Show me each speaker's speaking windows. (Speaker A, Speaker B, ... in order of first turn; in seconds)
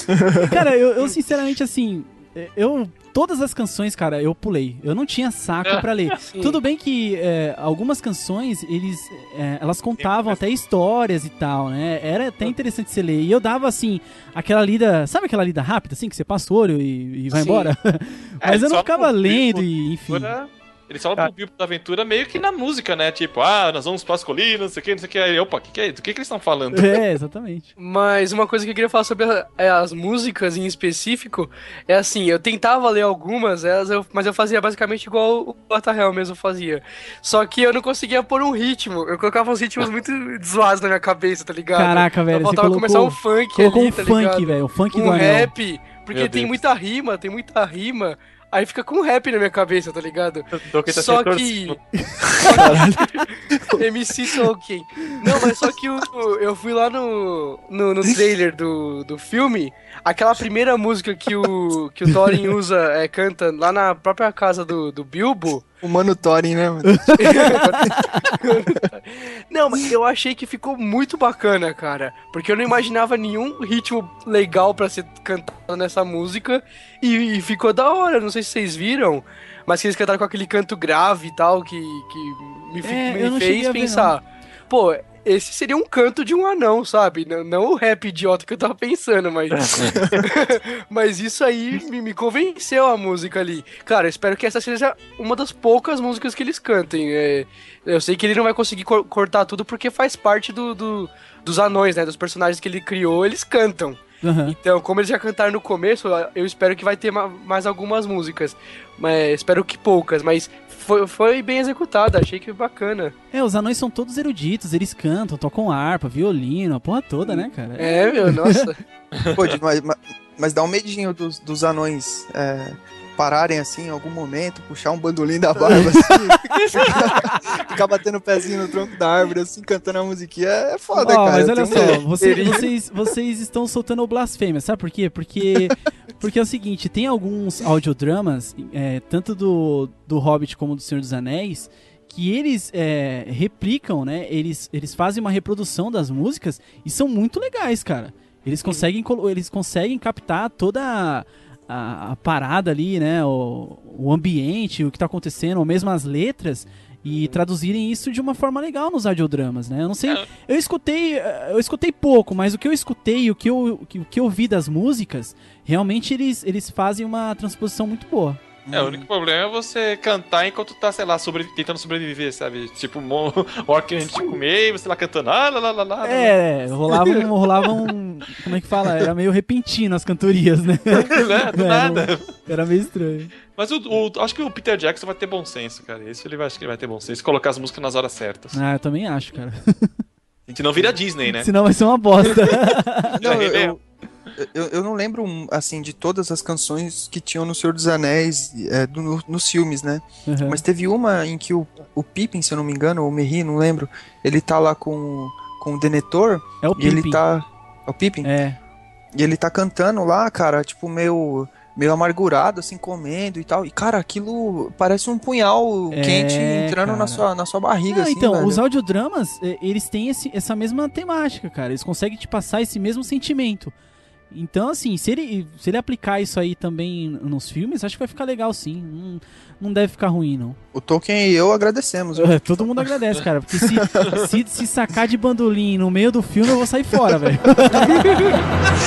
Speaker A: 0.2-0.4, 65.8-67.9, 119.3-132.5, 168.7-169.1, 190.5-191.0, 193.1-193.8, 194.4-208.3, 209.2-218.6, 230.7-232.8, 233.6-234.2
Speaker B: 0.5-20.3, 26.7-27.7, 41.8-45.5, 52.0-53.1, 66.9-68.3, 82.8-84.1, 104.2-104.6, 113.3-118.7, 125.7-127.4, 130.9-168.4, 176.0-183.3, 188.5-189.9, 191.2-193.2, 200.3-200.6, 206.6-207.2, 208.2-208.6, 215.9-217.2, 217.9-223.7, 224.3-230.6, 232.2-238.4
Speaker C: 6.2-6.6, 17.3-17.7, 27.8-51.8, 52.4-65.7, 67.2-113.1, 117.3-118.8, 131.7-132.7
Speaker D: 10.0-10.4, 18.4-27.0, 46.1-46.6, 50.5-51.8, 89.5-90.2, 119.1-119.5, 168.7-176.4, 181.0-182.3, 183.5-188.6, 190.5-191.5, 193.2-193.8